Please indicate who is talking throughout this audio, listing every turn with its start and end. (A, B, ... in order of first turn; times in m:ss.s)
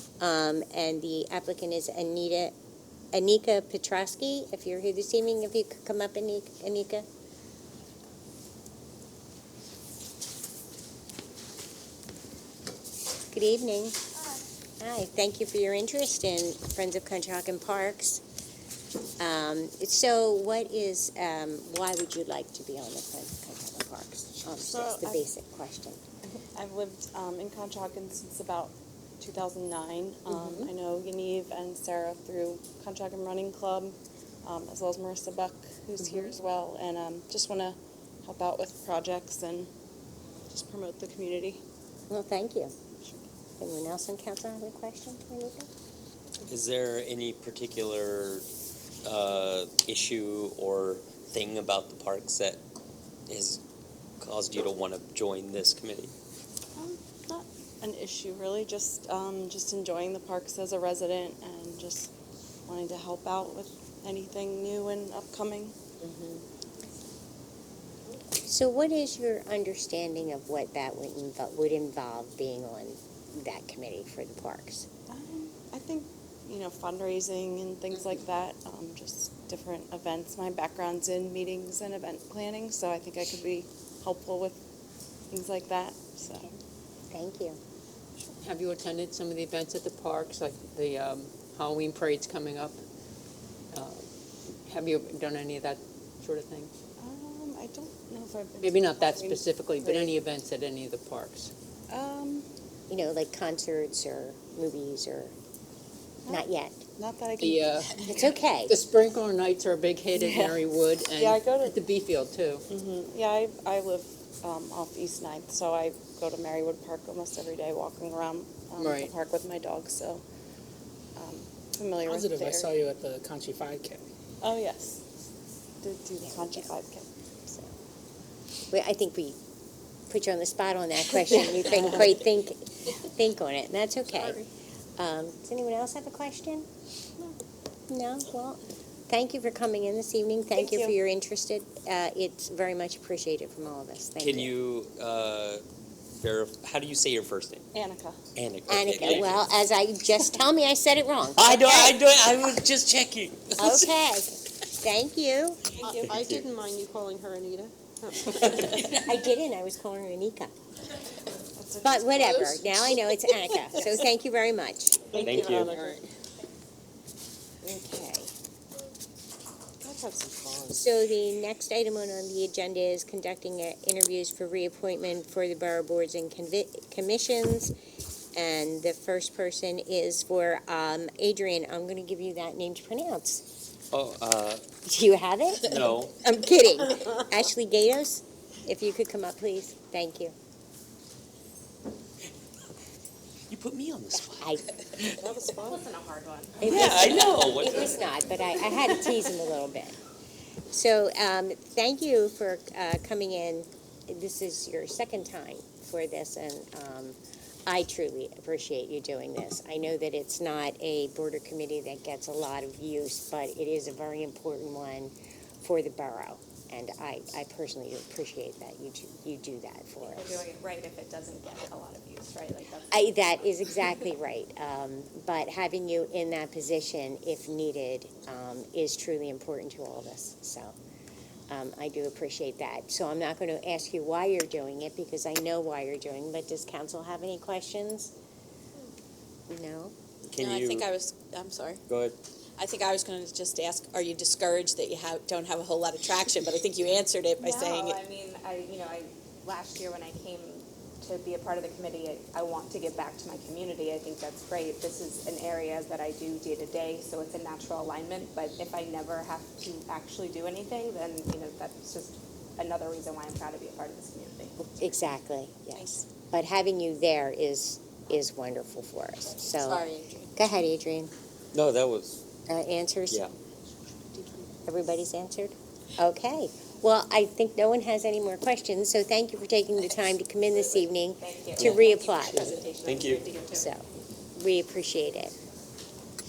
0:00.2-0:02.5 A
0:03.1-0:07.0 A
0:13.3-0:14.0 A
0:14.8-0:18.2 A
0:19.2-0:26.0 A
0:24.7-0:25.1 B
0:26.5-0:39.7 B
0:36.0-0:36.3 A
0:40.5-0:41.6 B
0:42.1-0:42.7 A
0:43.0-0:43.2 B
0:43.6-0:45.7 A
0:46.4-0:48.4 C
0:49.0-0:52.6 C
0:53.3-0:53.6 C
0:54.2-0:56.1 C
0:56.7-1:02.1 B
1:02.7-1:05.7 B
1:06.0-1:06.3 A
1:08.4-1:14.8 A
1:15.1-1:24.6 B
1:25.3-1:26.5 B
1:27.1-1:27.6 A
1:28.4-1:32.8 D
1:33.7-1:34.1 D
1:34.6-1:36.7 D
1:37.0-1:40.2 B
1:38.6-1:41.5 D
1:41.9-1:42.5 B
1:42.9-1:45.3 A
1:46.3-1:46.8 A
1:47.0-1:48.3 B
1:47.4-1:48.0 D
1:48.1-1:48.8 A
1:48.7-1:52.6 D
1:50.1-1:50.6 B
1:51.1-1:51.8 B
1:52.7-2:00.2 B
1:58.8-1:59.1 D
2:01.2-2:02.7 B
2:02.0-2:04.0 E
2:04.4-2:05.0 B
2:05.8-2:07.1 B
2:06.2-2:06.7 A
2:07.5-2:07.7 A
2:08.7-2:09.4 A
2:10.1-2:16.7 A
2:17.9-2:24.5 A
2:20.5-2:20.9 B
2:24.2-2:27.6 C
2:27.7-2:28.2 B
2:28.3-2:29.5 C
2:28.7-2:32.0 A
2:31.3-2:33.9 C
2:33.6-2:35.6 A
2:35.8-2:38.8 F
2:35.8-2:36.4 C
2:38.4-2:40.5 A
2:41.6-2:42.7 B
2:41.8-2:45.0 A
2:45.1-2:46.0 F
2:45.1-2:46.0 B
2:45.2-2:45.7 C
2:47.6-2:48.3 B
2:49.8-2:50.8 B
2:50.7-2:57.7 A
2:58.3-3:03.4 A
3:03.9-3:04.6 C
3:04.8-3:10.3 A
3:05.6-3:06.1 C
3:13.5-3:15.2 C
3:14.3-3:14.6 A
3:15.2-3:15.6 B
3:15.5-3:16.9 G
3:16.6-3:20.0 A
3:16.6-3:18.1 C
3:20.7-3:40.4 A
3:40.0-3:43.3 G
3:42.9-3:50.8 A
3:51.5-3:58.1 A
3:59.5-3:59.9 A
4:00.2-4:00.9 C
4:00.4-4:01.8 H
4:01.9-4:02.2 C
4:02.6-4:07.9 H
4:07.4-4:24.6 G
4:24.6-4:31.1 A
4:29.7-4:30.3 H
4:31.5-4:32.3 C
4:32.5-4:33.2 A
4:34.6-4:42.6 A
4:41.1-4:43.6 G
4:42.8-4:43.2 C
4:43.5-4:45.4 A